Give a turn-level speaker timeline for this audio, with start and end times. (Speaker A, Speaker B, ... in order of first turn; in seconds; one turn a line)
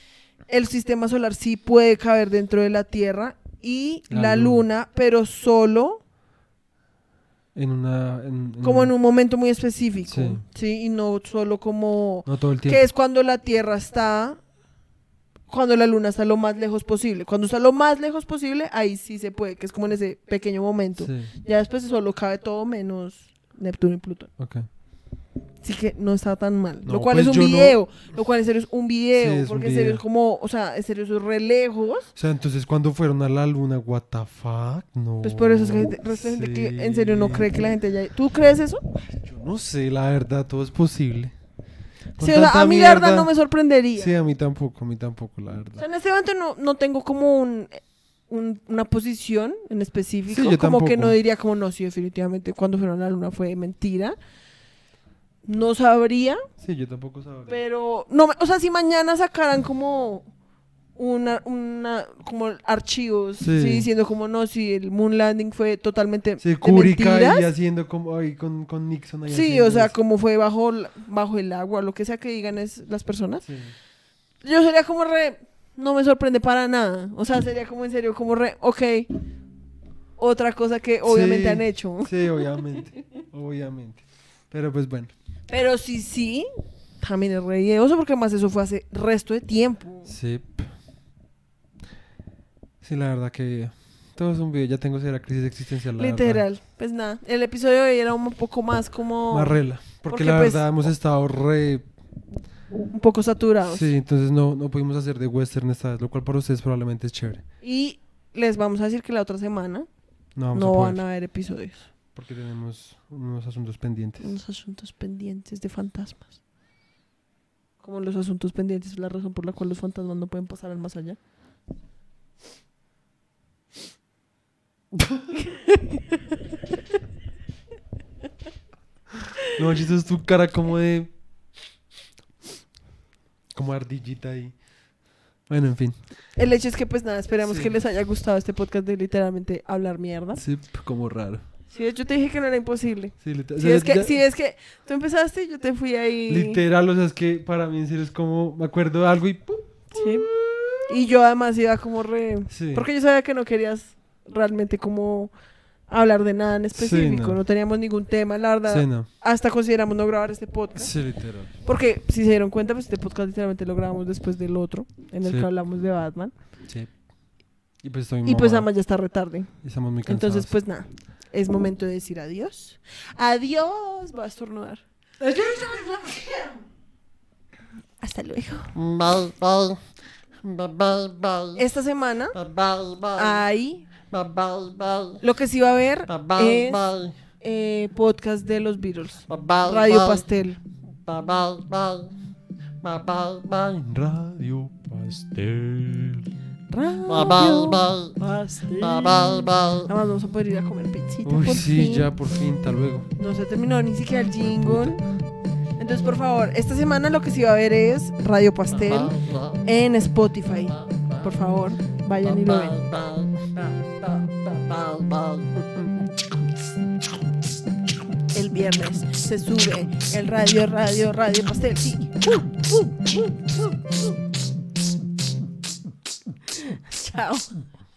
Speaker A: 0.5-6.0
Speaker B: 4.1-4.6
Speaker B: 7.5-8.9
Speaker A: 8.6-14.4
Speaker B: 10.1-10.4
Speaker B: 12.3-12.8
Speaker A: 15.5-24.3
Speaker B: 21.0-21.3
Speaker B: 24.4-24.7
Speaker A: 25.6-32.1
Speaker B: 26.9-27.8
Speaker B: 29.2-30.0
Speaker B: 32.1-37.6
Speaker A: 35.2-38.8
Speaker B: 39.0-41.4
Speaker A: 42.2-44.1
Speaker B: 42.2-45.8
Speaker A: 45.8-54.2
Speaker B: 50.3-51.2
Speaker A: 55.4-56.4
Speaker B: 56.6-57.6
Speaker A: 57.5-60.3
Speaker A: 61.0-67.5
Speaker B: 63.4-63.9
Speaker B: 66.4-70.0
Speaker A: 69.3-73.5
Speaker B: 73.4-73.8
Speaker A: 74.4-79.1
Speaker A: 80.2-82.2
Speaker B: 81.0-85.1
Speaker A: 85.5-86.5
Speaker A: 87.0-90.1
Speaker B: 90.1-90.7
Speaker B: 92.8-96.5
Speaker A: 96.0-100.7
Speaker B: 99.3-101.9
Speaker A: 102.9-103.9
Speaker B: 103.7-107.5
Speaker A: 107.6-111.9
Speaker B: 110.3-111.0
Speaker B: 112.1-114.3
Speaker A: 114.2-116.3
Speaker A: 117.8-121.2
Speaker A: 125.4-126.0
Speaker B: 129.6-131.2
Speaker B: 133.5-134.8
Speaker B: 135.4-136.1
Speaker A: 136.3-140.4
Speaker B: 137.4-137.8
Speaker B: 140.4-141.4
Speaker A: 141.7-146.6
Speaker B: 143.2-144.2
Speaker B: 146.3-150.8
Speaker A: 149.9-150.3
Speaker A: 150.8-155.3
Speaker B: 152.5-152.9
Speaker A: 155.9-166.3
Speaker B: 156.7-157.4
Speaker B: 158.7-159.1
Speaker B: 160.8-161.5
Speaker B: 165.2-165.5
Speaker B: 166.6-168.7
Speaker A: 168.2-174.8
Speaker B: 169.6-170.5
Speaker B: 175.2-176.4
Speaker A: 178.0-178.7
Speaker C: 178.7-179.8
Speaker C: 180.4-181.6
Speaker A: 181.6-182.4
Speaker C: 182.3-183.4
Speaker A: 183.2-183.9
Speaker C: 184.1-185.2
Speaker A: 185.2-186.8
Speaker C: 186.1-187.2
Speaker A: 187.4-190.6
Speaker C: 189.3-190.3
Speaker C: 191.1-192.2
Speaker C: 192.8-193.8
Speaker B: 193.8-196.3
Speaker A: 196.7-199.1
Speaker C: 197.1-198.2
Speaker C: 198.8-199.9
Speaker A: 199.9-202.1
Speaker B: 201.2-203.1
Speaker A: 203.2-205.0
Speaker B: 204.4-205.0
Speaker A: 205.8-212.8
Speaker C: 208.7-209.6
Speaker C: 210.7-211.3
Speaker C: 212.2-215.7
Speaker A: 218.3-222.2
Speaker A: 226.7-227.6